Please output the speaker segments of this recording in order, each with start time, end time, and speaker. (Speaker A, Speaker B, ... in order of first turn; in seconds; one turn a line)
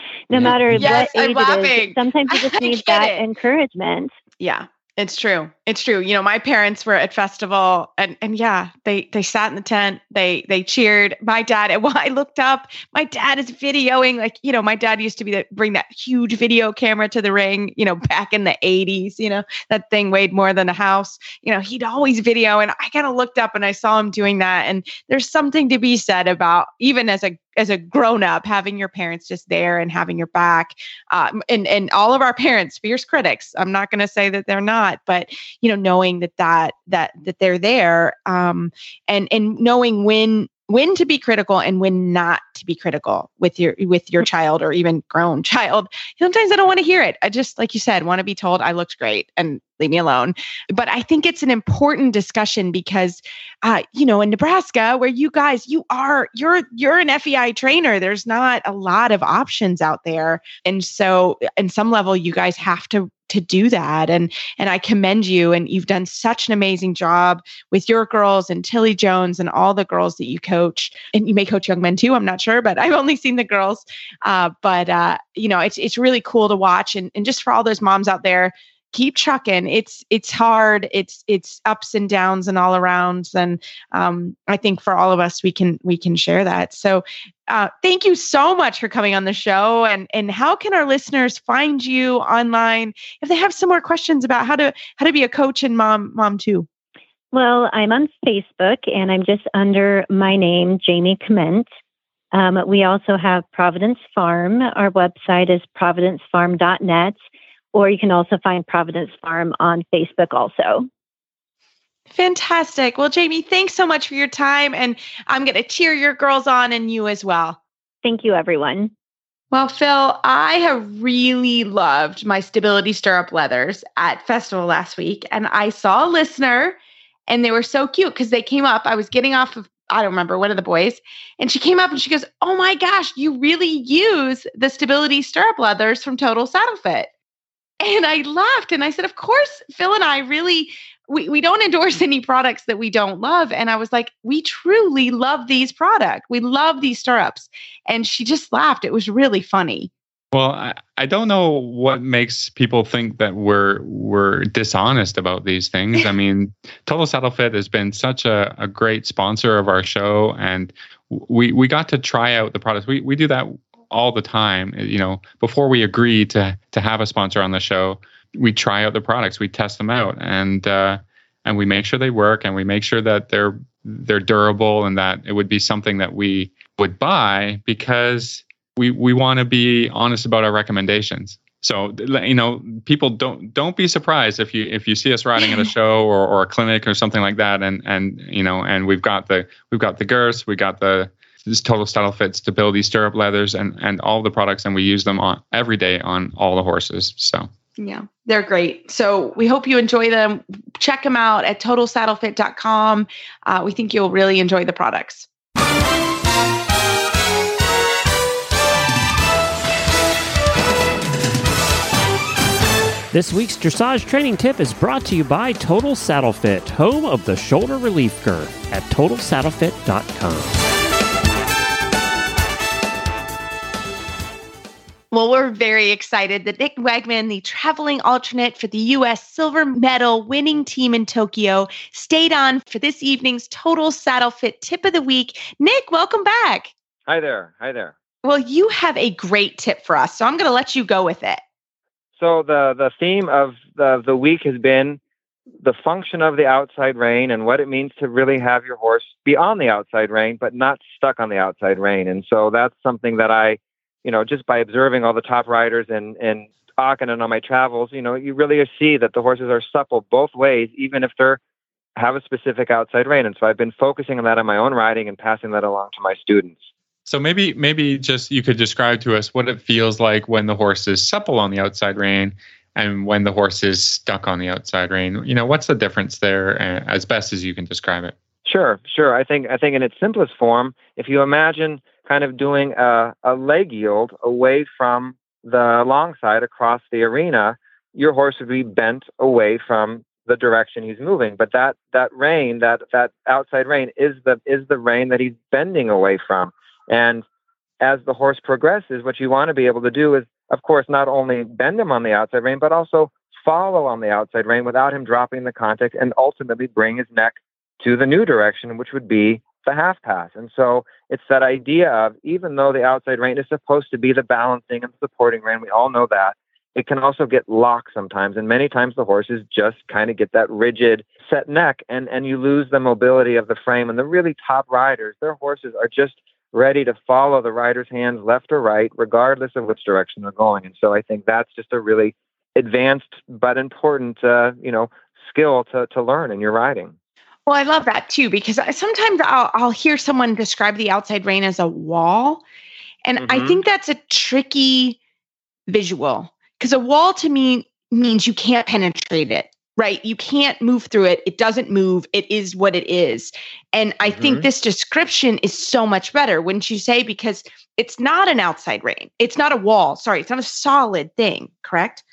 Speaker A: 0.3-4.1
Speaker B: 0.3-0.8
Speaker C: 0.8-3.2
Speaker C: 4.4-96.7
Speaker A: 97.3-101.7
Speaker A: 102.3-107.2
Speaker A: 107.7-110.9
Speaker C: 112.1-117.6
Speaker A: 118.0-118.9
Speaker C: 119.5-126.8
Speaker C: 127.3-137.1
Speaker C: 137.8-149.9
Speaker B: 150.3-197.5
Speaker C: 197.8-205.3
Speaker D: 213.1-220.6
Speaker C: 225.1-236.7
Speaker E: 237.1-237.9
Speaker C: 238.2-241.4
Speaker E: 242.2-245.0
Speaker E: 245.6-261.4
Speaker E: 261.9-266.7
Speaker B: 267.1-278.1
Speaker E: 278.4-297.2
Speaker E: 297.8-336.9
Speaker C: 337.5-342.4
Speaker C: 343.0-345.0
Speaker E: 343.2-343.6
Speaker C: 345.7-362.0